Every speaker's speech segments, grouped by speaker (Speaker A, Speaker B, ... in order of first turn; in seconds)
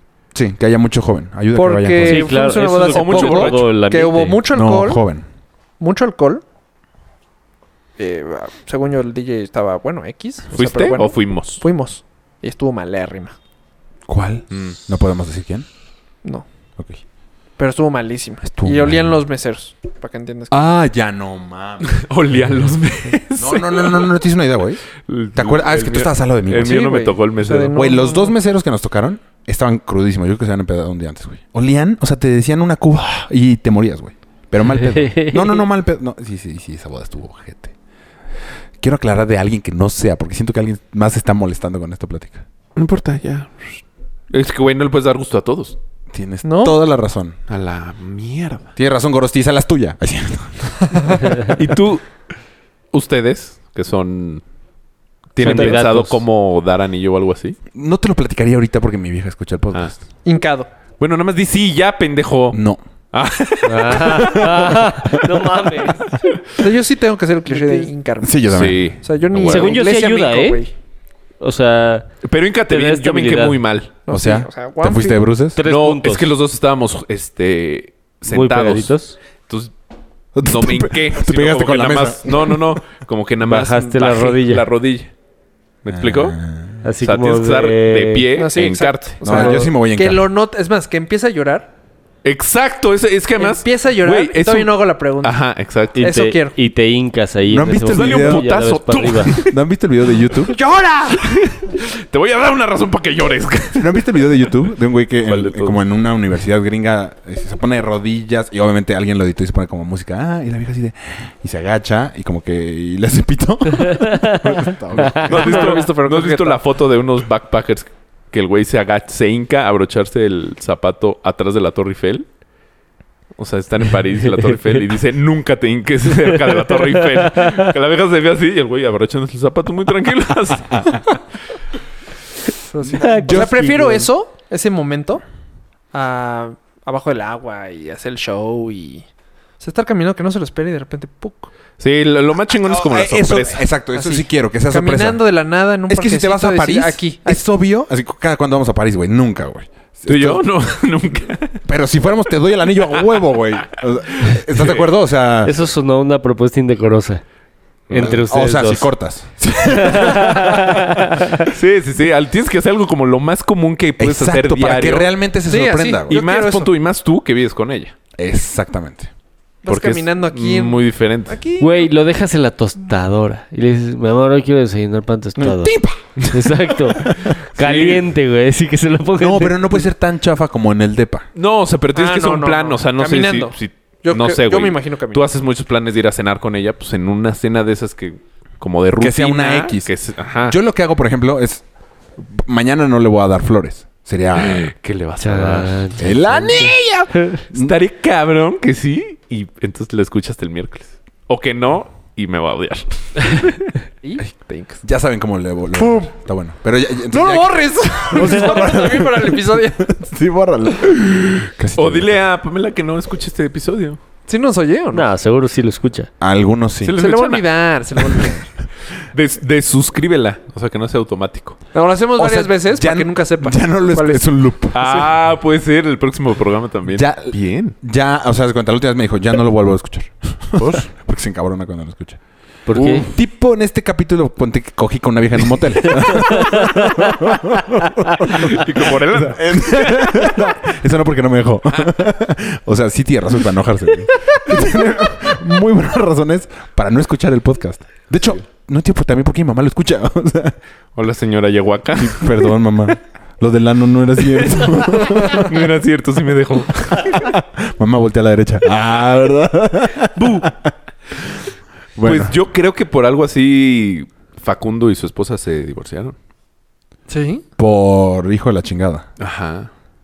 Speaker A: 0.3-2.3, 4.5-5.2, 14.1-15.7, 18.5-19.2, 20.5-22.0, 23.4-26.9, 27.7-37.8, 38.8-42.4, 46.1-47.4, 48.8-51.4, 57.7-59.9, 62.5-62.8, 64.3-65.0, 68.2-69.0, 74.1-75.6, 80.3-82.7, 85.9-86.8, 89.2-90.2, 97.5-98.5, 99.3-100.6, 103.8-115.7, 130.7-131.0, 133.1-133.8, 142.7-145.2, 145.9-150.4, 151.7-155.5, 157.9-160.7, 164.0-166.2, 168.2-169.1, 175.4-176.0, 177.1-177.3, 179.2-181.3, 189.0-189.9, 190.4-191.6, 192.2-194.7, 196.0-197.8, 204.8-212.2, 216.2-217.0, 222.2-225.1, 226.9-232.2, 232.7-250.6, 251.9-255.5, 257.0-260.7, 262.0-262.4, 267.6-269.1
Speaker B: 1.5-5.0, 5.8-6.4, 8.0-13.3, 17.6-20.6, 26.6-28.4, 46.4-46.8, 55.5-55.8, 60.2-60.7, 66.6-70.7, 74.1-75.2, 88.3-91.7, 93.4-95.4, 96.0-96.6, 100.5-101.3, 115.3-116.6, 132.7-135.2, 135.9-139.1, 139.6-141.5, 143.9-147.4, 165.5-166.7, 169.7-171.9, 181.9-185.3, 204.0-204.8, 205.8-206.1, 207.1-210.0, 214.3-215.1, 217.0-218.5, 221.7-224.3, 267.1-267.4
Speaker C: 2.0-4.5, 35.0-35.6, 55.4-56.2, 63.6-66.1, 67.5-67.9, 69.4-70.6, 71.4-72.1, 72.7-73.6, 75.5-76.3, 78.3-79.2, 83.4-84.7, 86.8-88.3, 96.0-99.4, 114.0-114.4, 115.0-115.3, 132.9-134.1, 155.4-157.2, 157.9-158.9, 159.8-161.4, 171.6-179.8, 195.2-196.8, 214.9-216.1, 232.7-233.1, 236.3-236.8
Speaker D: 2.6-3.7, 10.5-11.6, 14.5-14.8, 21.8-24.2, 25.1-27.8, 42.8-45.8, 47.5-48.7, 51.5-52.2, 52.9-54.4, 55.3-57.6, 61.0-62.6, 63.1-64.8, 68.5-69.8, 72.2-73.9, 75.6-78.9, 79.5-79.7, 80.4-85.1, 85.8-86.4, 87.0-89.2, 92.2-96.0, 97.9-99.6, 101.2-104.2, 105.2-105.8, 115.2-122.3, 123.4-131.2, 141.8-143.7, 150.1-151.6, 154.2-154.9, 157.9-158.2, 161.4-165.1, 166.1-167.9, 169.7-171.4, 177.6-178.0, 181.3-190.6, 194.4-195.9, 197.5-203.7, 211.8-214.0, 216.8-218.3, 219.0-221.6, 224.7-227.8, 230.6-230.9, 238.3-240.4, 251.0-252.6, 254.4-257.3, 262.0-266.2, 269.2-269.7